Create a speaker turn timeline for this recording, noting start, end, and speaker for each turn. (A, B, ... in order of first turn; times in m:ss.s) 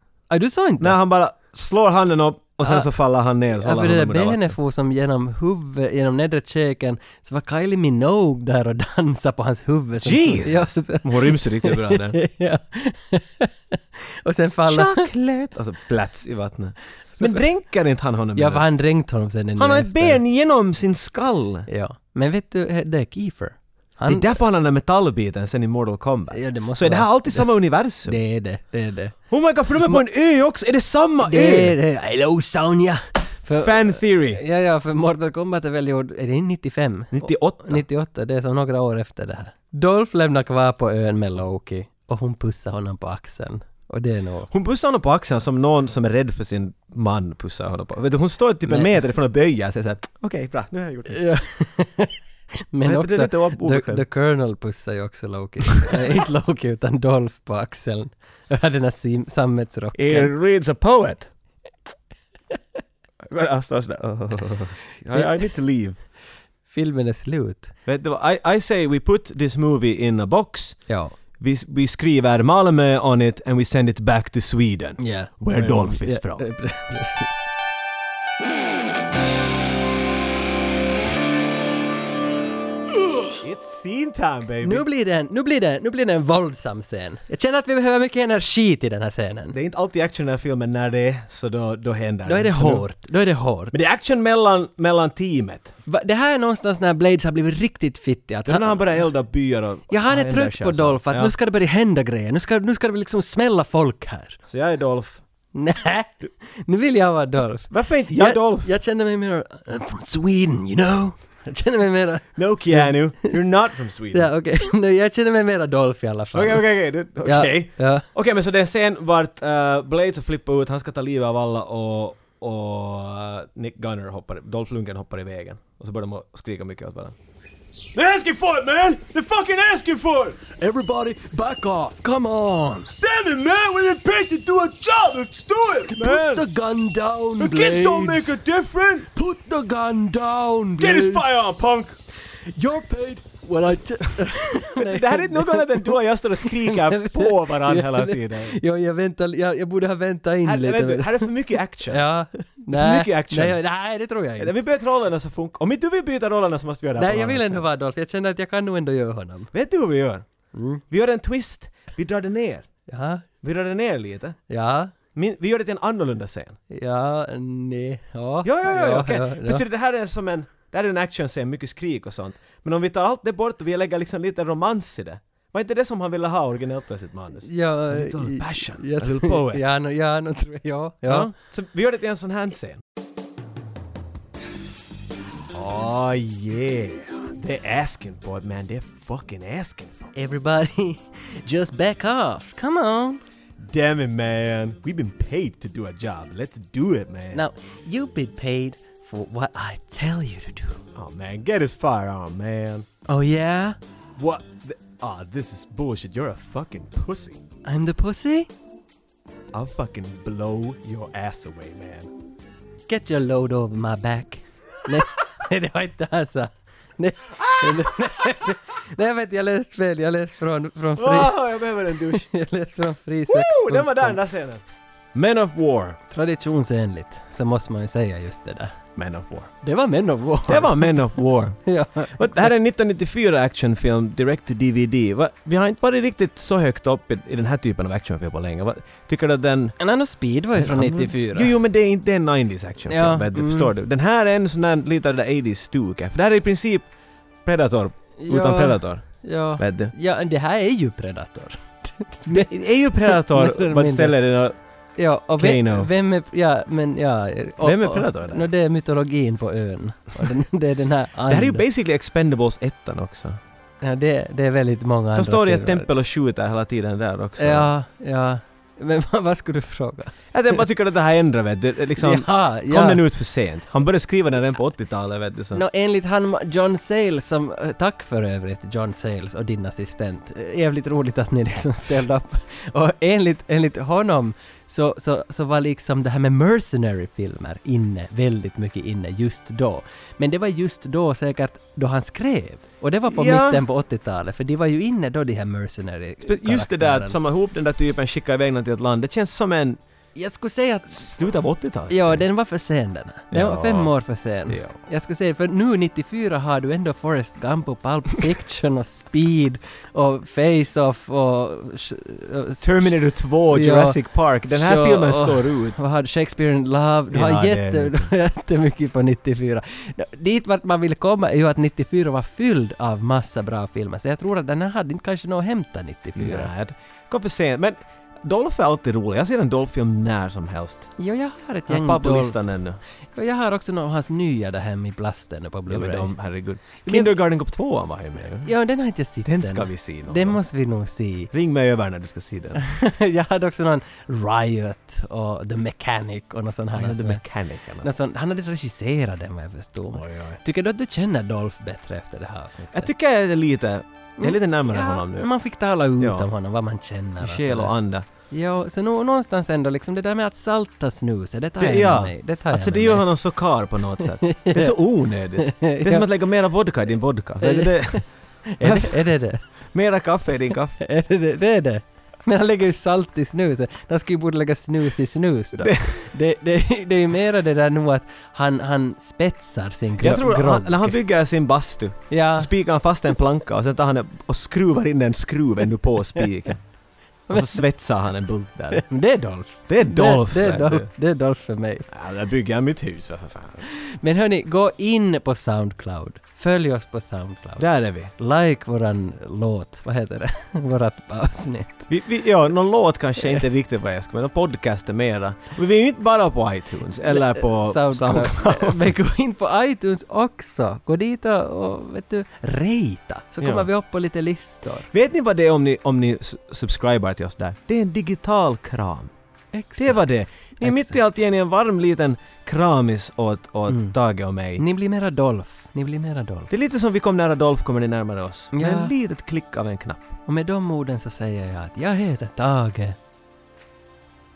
0:00.3-0:01.0 A
0:00.8-0:04.6 B
0:03.6-0:15.1 A
0:10.0-0:12.2 B
0:14.7-0:18.6 B
0:17.1-0:17.5 A
0:18.4-0:20.2 A
0:19.6-0:21.7 B
0:21.7-0:24.4 A
0:24.1-0:28.2 B
0:26.3-0:29.2 A
0:29.3-0:31.8 B
0:29.7-0:30.0 A
0:31.2-0:44.5 A
0:33.5-0:34.4 B
0:37.1-0:37.8 B
0:44.5-0:51.2 B
0:48.7-0:49.0 A
0:51.1-0:52.2 A
0:52.7-1:00.3 A
0:52.8-0:54.1 B
1:00.0-1:01.3 B
1:03.2-1:06.0 B
1:06.7-1:07.7 A
1:07.9-1:10.8 B
1:10.9-1:11.2 A
1:11.4-1:16.5 B
1:15.0-1:17.5 A
1:22.9-1:23.3 A
1:23.4-1:24.8 B
1:24.6-1:29.6 A
1:29.5-1:32.8 B
1:32.3-1:33.7 A
1:33.7-1:35.7 B
1:35.9-1:39.0 A
1:38.5-1:41.3 B
1:39.9-1:44.4 A
1:44.5-1:45.2 B
1:45.5-1:53.4 A
1:47.7-1:48.7 B
1:52.4-1:54.3 B
1:54.1-1:56.6 A
1:56.3-2:07.2 B
1:57.2-1:58.1 A
2:07.9-2:10.5 B
2:10.5-2:12.9 A
2:13.0-2:16.5 B
2:15.9-2:18.4 A
2:17.4-2:19.1 B
2:19.1-2:21.3 A
2:20.8-2:22.0 B
2:22.3-2:31.3 A
2:24.8-2:28.6 B
2:30.4-2:32.1 B
2:31.9-2:34.6 A
2:32.7-2:33.6 B
2:34.4-2:37.6 B
2:37.0-2:39.5 A
2:39.5-2:40.3 B
2:40.5-2:40.8 A
2:40.9-2:42.7 B
2:42.9-2:43.3 A
2:43.4-2:44.4 B
2:44.5-2:44.9 A
2:45.2-2:46.6 B
2:46.7-2:49.6 A
2:48.4-2:59.6 B
2:57.5-3:01.3 A
3:01.1-3:02.8 B
3:05.5-3:10.1 B
3:10.2-3:13.2 A
3:13.6-3:17.4 B
3:17.3-3:20.8 A
3:21.0-3:22.9 B
3:23.1-3:23.8 A
3:24.2-3:27.4 B
3:27.6-3:28.5 A
3:29.5-3:32.1 B
3:32.9-3:44.2 A
3:41.0-3:42.3 B
3:43.3-3:44.6 B
3:45.1-3:46.0 B
3:46.1-3:48.8 A
3:49.0-3:49.5 B
3:49.6-3:51.1 A
3:50.5-3:51.6 B
3:51.6-3:52.5 A
3:52.1-3:59.8 B
3:59.8-4:01.5 A
4:00.6-4:06.9 B
4:02.9-4:03.7 A
4:07.4-4:09.9 B
4:08.2-4:14.2 A
4:12.3-4:14.6 B
4:15.0-4:21.6 A
4:15.4-4:15.9 B
4:17.6-4:18.5 B
4:21.3-4:23.4 B
4:23.8-4:25.9 A
4:25.2-4:27.7 B
4:27.4-4:30.6 A
4:30.3-4:35.6 B
4:32.0-4:33.0 A
4:35.5-4:57.2 A
4:53.1-4:53.6 B
4:56.2-4:59.8 B
5:00.2-5:01.3 A
5:00.9-5:02.3 B
5:01.9-5:12.9 A
5:03.3-5:03.9 B
5:04.5-5:04.8 B
5:12.6-5:15.8 B
5:13.5-5:26.5 A
5:17.1-5:18.1 B
5:26.2-5:31.0 B
5:31.0-5:32.4 A
5:31.7-5:32.8 B
5:33.1-5:36.1 A
5:35.7-5:38.5 B
5:36.8-5:37.2 A
5:38.4-5:41.3 A
5:39.2-5:40.4 B
5:41.3-5:42.7 B
5:42.6-5:47.2 A
5:46.7-5:47.9 B
5:47.8-5:52.9 A
5:49.9-5:50.4 B
5:52.7-5:55.3 B
5:54.2-5:57.7 A
5:56.0-5:56.3 B
5:57.2-5:58.1 B
5:58.3-6:03.1 A
6:01.6-6:09.0 B
6:04.0-6:04.8 A
6:05.4-6:06.1 A
6:07.4-6:09.4 A
6:09.7-6:10.8 B
6:10.8-6:21.0 A
6:15.6-6:16.1 B
6:20.0-6:26.6 B
6:22.1-6:22.5 A
6:27.3-6:27.6 A
6:27.3-6:28.9 B
6:28.7-6:31.9 A
6:29.7-6:30.9 B
6:31.9-6:33.6 B
6:33.7-6:37.6 A
6:37.6-6:38.1 B
6:38.2-6:41.9 A
6:41.9-6:48.9 B
6:47.1-6:54.9 A
6:53.4-6:53.7 B
6:54.9-6:59.1 B
6:59.5-7:00.1 A
6:59.8-7:04.6 B
7:00.6-7:01.0 A
7:03.7-7:04.0 A
7:04.6-7:06.5 A
7:06.5-7:10.1 B
7:08.5-7:08.9 A
7:10.3-7:13.0 A